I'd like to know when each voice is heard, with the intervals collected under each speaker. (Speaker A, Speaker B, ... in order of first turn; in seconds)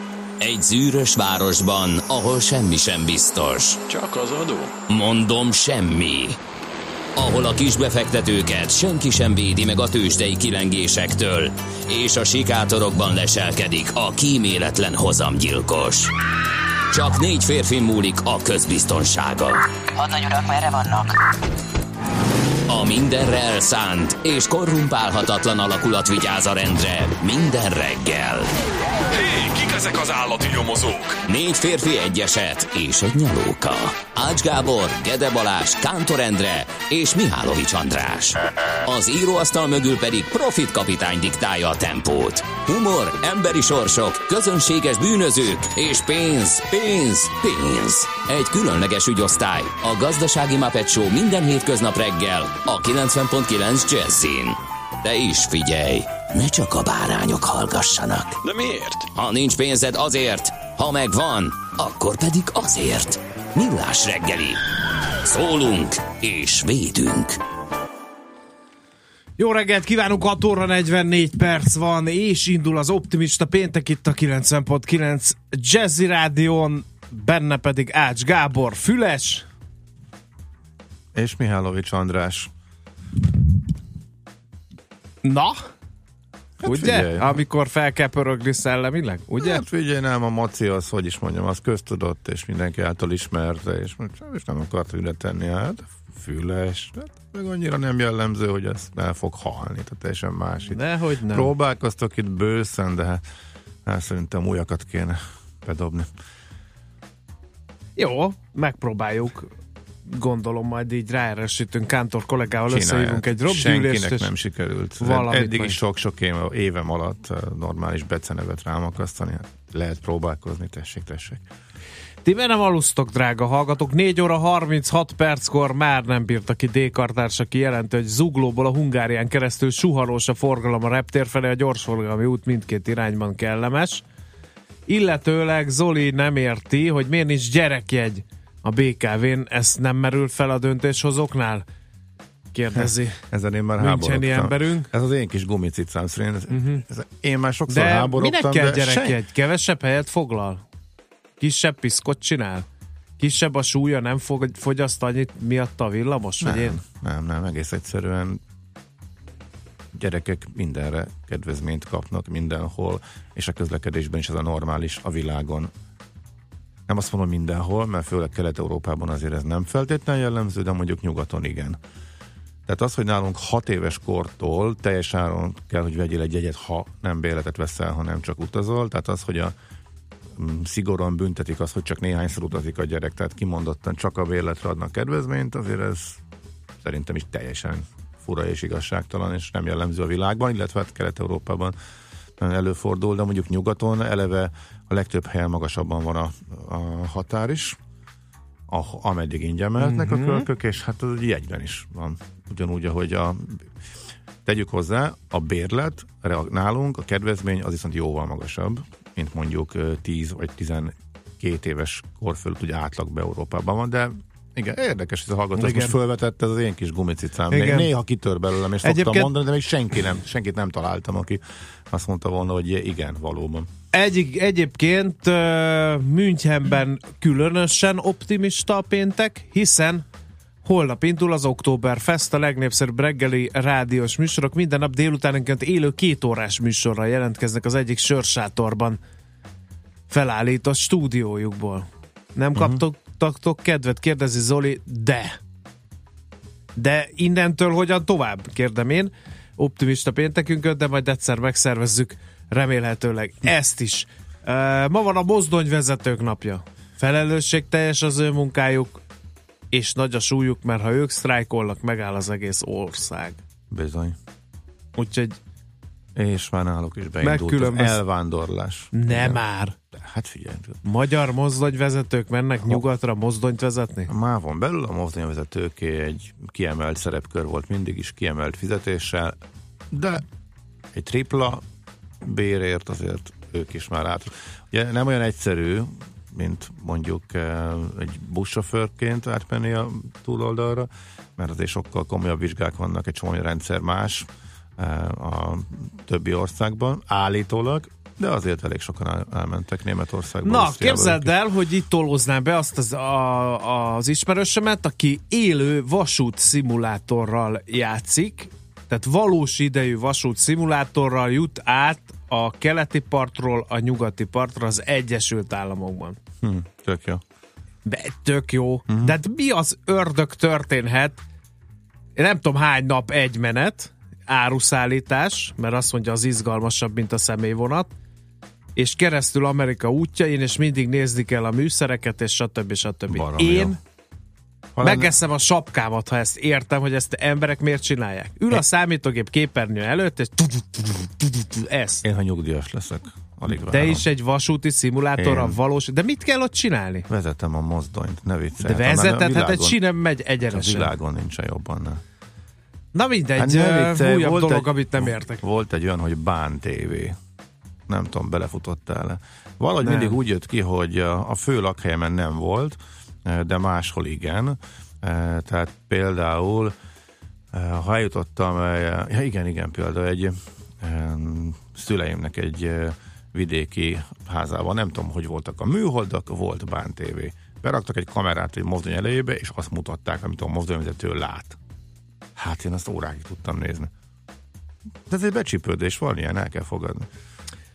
Speaker A: 0.4-3.8, 4.9-6.4, 7.2-16.1, 16.9-21.1, 22.7-28.5, 31.3-58.4, 59.1-64.6, 65.2-67.4
Speaker B: 3.9-4.7, 29.1-31.2, 58.4-59.1
Speaker C: 69.4-79.5, 85.2-85.6, 86.6-89.6, 100.7-101.5, 108.0-109.5, 110.1-114.3, 115.0-115.8, 122.2-134.0, 134.9-141.6, 142.5-143.2, 143.8-144.9, 146.5-146.8, 147.7-150.6, 151.4-152.7, 153.2-156.8, 199.8-200.4, 215.6-215.9, 217.5-217.9, 218.8-219.3, 223.9-230.0, 230.6-239.0, 240.1-245.4, 246.8-259.0, 259.7-263.4, 264.9-265.4, 267.2-268.0, 268.9-269.8, 270.8-274.1, 300.4-316.2, 317.8-321.2, 322.1-327.9, 328.8-333.8, 334.8-342.0, 343.7-347.1, 348.6-350.9, 352.9-355.4, 359.8-360.1
Speaker D: 81.1-82.5, 86.6-87.4, 89.4-103.2, 103.8-106.1, 112.7-121.4, 142.7-149.2, 156.4-158.4, 159.9-165.7, 166.9-171.8, 172.7-179.5, 180.3-186.2, 186.8-191.7, 192.4-197.8, 198.7-203.7, 204.4-223.7, 242.5-242.8, 263.7-264.1, 266.1-270.8, 274.1-279.4, 279.9-280.2, 280.9-281.6, 282.2-301.3, 316.4-317.2, 318.9-319.1, 333.1-333.8, 334.8-335.1, 342.0-344.1, 345.2-345.6, 347.1-349.8, 350.5-352.0, 353.4-357.1, 357.9-366.7, 367.5-381.6, 382.4-383.9, 385.1-387.1